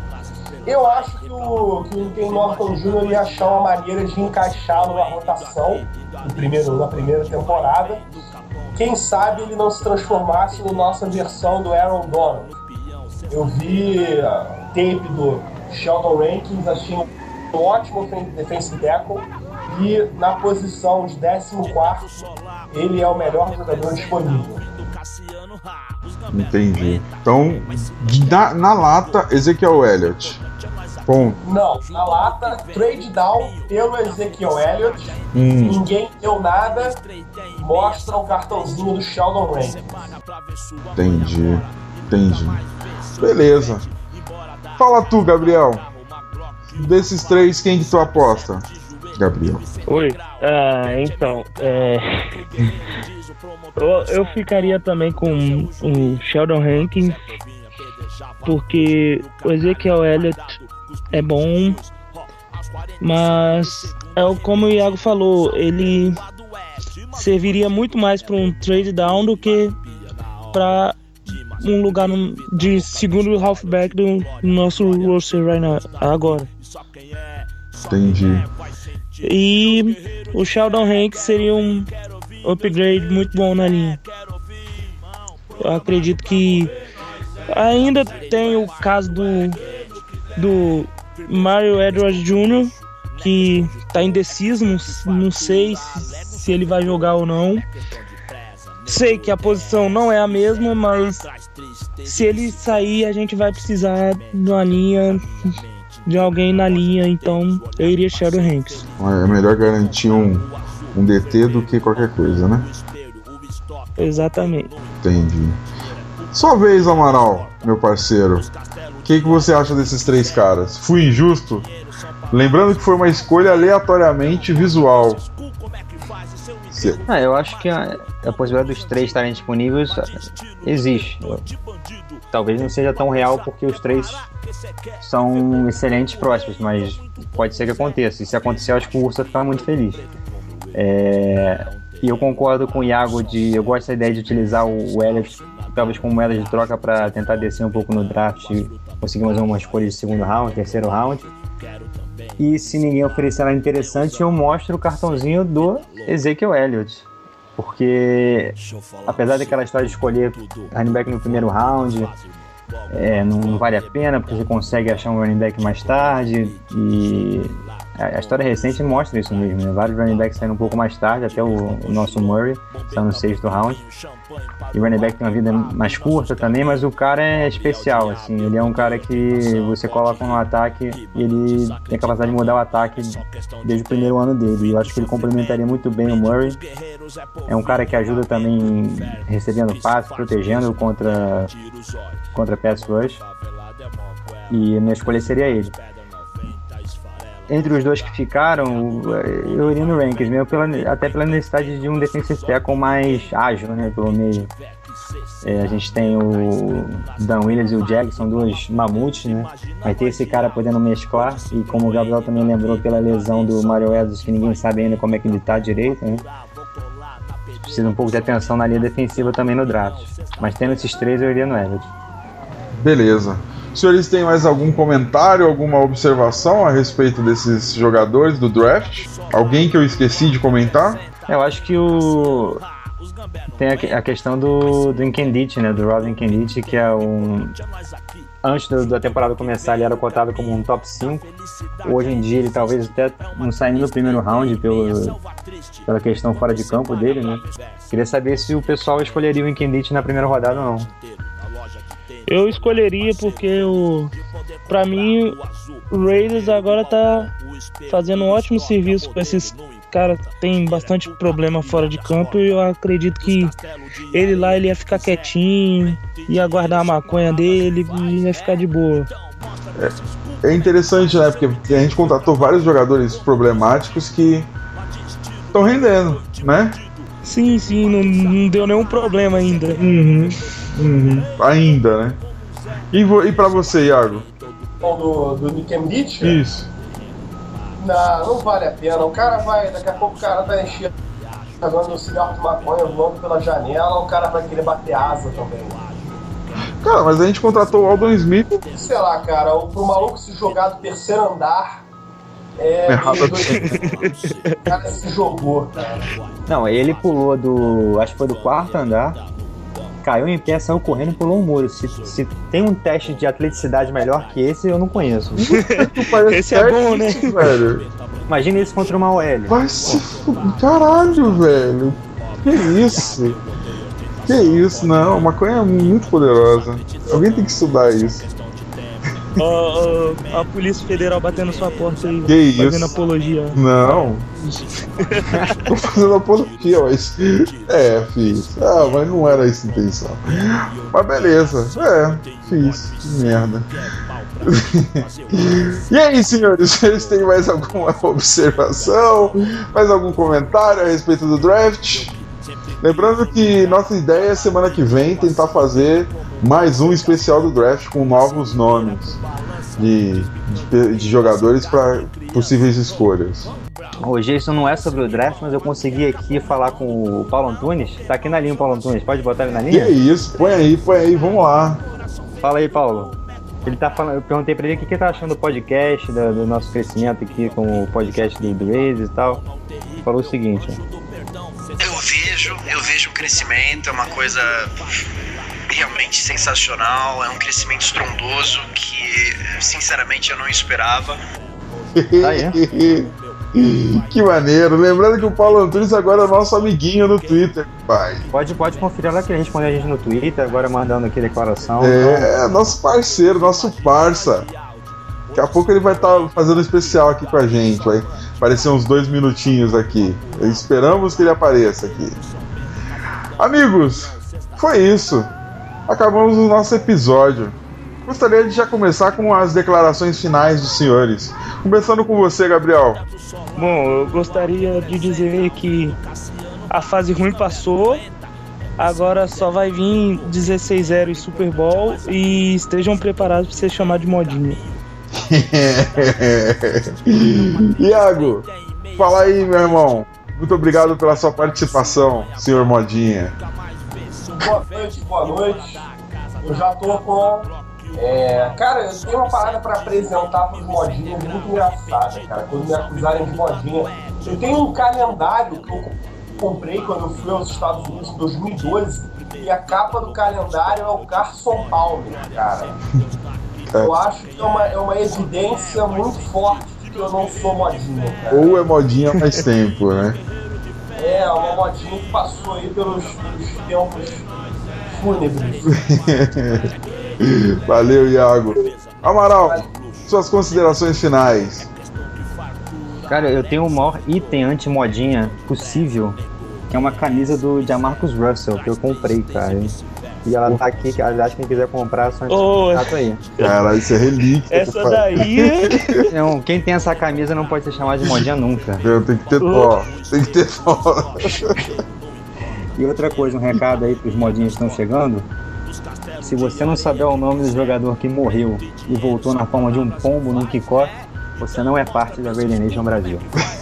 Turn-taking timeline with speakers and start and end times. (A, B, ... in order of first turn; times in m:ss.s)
0:00.6-0:08.1 A
0:08.7-0:12.6 A
0:13.3-0:24.6 A
0:26.3-0:30.4 B
0:31.0-0:31.4 B
0:31.4-0:37.0 A
0:35.3-0:35.8 B
0:37.6-0:40.2 A
0:41.0-0:42.6 B
0:43.2-0:43.9 B
0:44.8-0:45.8 B
0:46.7-0:49.6 B
0:49.9-0:52.2 C
0:53.8-0:57.4 C
0:58.4-1:00.6 C
1:01.1-1:01.8 C
1:03.0-1:06.2 C
1:07.1-1:09.8 C
1:10.5-1:16.5 C
1:17.9-1:18.5 B
1:19.2-1:21.9 C
1:22.4-1:24.0 C
1:25.6-1:26.7 C
1:27.5-1:29.6 C
1:30.4-1:37.6 C
1:38.8-1:41.3 C
1:42.0-1:45.5 C
1:46.0-1:48.8 C
1:49.0-1:52.7 B
1:54.0-1:54.7 C
1:55.0-1:55.6 B
1:56.3-1:58.5 B
1:59.0-2:01.7 B
2:02.3-2:05.2 B
2:06.7-2:07.0 B
2:07.1-2:11.5 D
2:12.3-2:14.3 D
2:15.0-2:20.0 D
2:20.7-2:31.3 D
2:32.4-2:37.0 D
2:37.6-2:42.1 D
2:42.9-2:53.8 D
2:54.7-3:06.6 D
3:07.5-3:11.5 D
3:12.3-3:13.2 D
3:14.5-3:15.8 D
3:17.5-3:24.5 D
3:25.4-3:36.2 D
3:37.6-3:41.9 D
3:42.7-3:51.0 B
3:51.3-3:52.6 D
3:53.6-3:57.6 D
3:58.4-4:01.3 D
4:01.8-4:05.2 D
4:05.8-4:10.9 D
4:12.3-4:14.2 C
4:14.7-4:17.3 C
4:17.9-4:23.6 C
4:24.1-4:29.1 C
4:29.8-4:34.5 B
4:35.5-4:36.8 B
4:37.2-4:39.8 C
4:39.8-4:42.2 B
4:42.9-4:44.2 B
4:44.8-4:46.4 A
4:46.2-4:46.7 B
4:47.8-4:50.9 A
4:51.6-4:55.8 A
4:56.8-4:58.6 B
4:58.7-5:01.8 A
5:02.6-5:03.8 A
5:02.9-5:03.8 B
5:03.7-5:04.8 C
5:04.6-5:06.0 A
5:06.5-5:09.2 D
5:10.0-5:15.4 D
5:15.4-5:17.9 B
5:15.5-5:17.6 C
5:18.3-5:20.0 D
5:19.5-5:23.4 B
5:24.3-5:28.2 B
5:29.4-5:35.6 C
5:32.3-5:32.9 B
5:33.5-5:34.3 B
5:35.6-5:43.7 B
5:44.4-5:52.2 B
5:52.8-5:59.2 B
5:59.8-6:03.5 B
6:04.0-6:09.9 D
6:09.7-6:11.8 B
6:12.4-6:13.1 D
6:13.6-6:19.4 D
6:20.0-6:20.8 D
6:21.8-6:24.8 E
6:25.7-6:31.2 E
6:32.0-6:38.2 B
6:32.2-6:32.6 D
6:38.3-6:42.3 D
6:41.8-6:44.5 B
6:45.3-6:52.2 B
6:53.4-6:55.3 B
6:55.9-7:03.0 B
7:03.6-7:06.0 C
7:06.7-7:08.0 C
7:08.8-7:14.6 C
7:15.1-7:23.4 B
7:24.2-7:25.9 A
7:26.4-7:42.8 A
7:43.8-7:48.5 A
7:48.3-7:50.2 B
7:51.0-7:54.3 A
7:54.9-7:55.7 A
7:55.6-7:56.7 B
7:57.2-8:01.7 B
8:03.1-8:06.2 D
8:06.7-8:13.2 D
8:12.3-8:13.6 C
8:13.4-8:16.0 B
8:14.5-8:16.1 C
8:16.1-8:18.8 D
8:18.8-8:21.6 B
8:19.4-8:19.7 C
8:22.8-8:25.3 D
8:26.2-8:33.2 D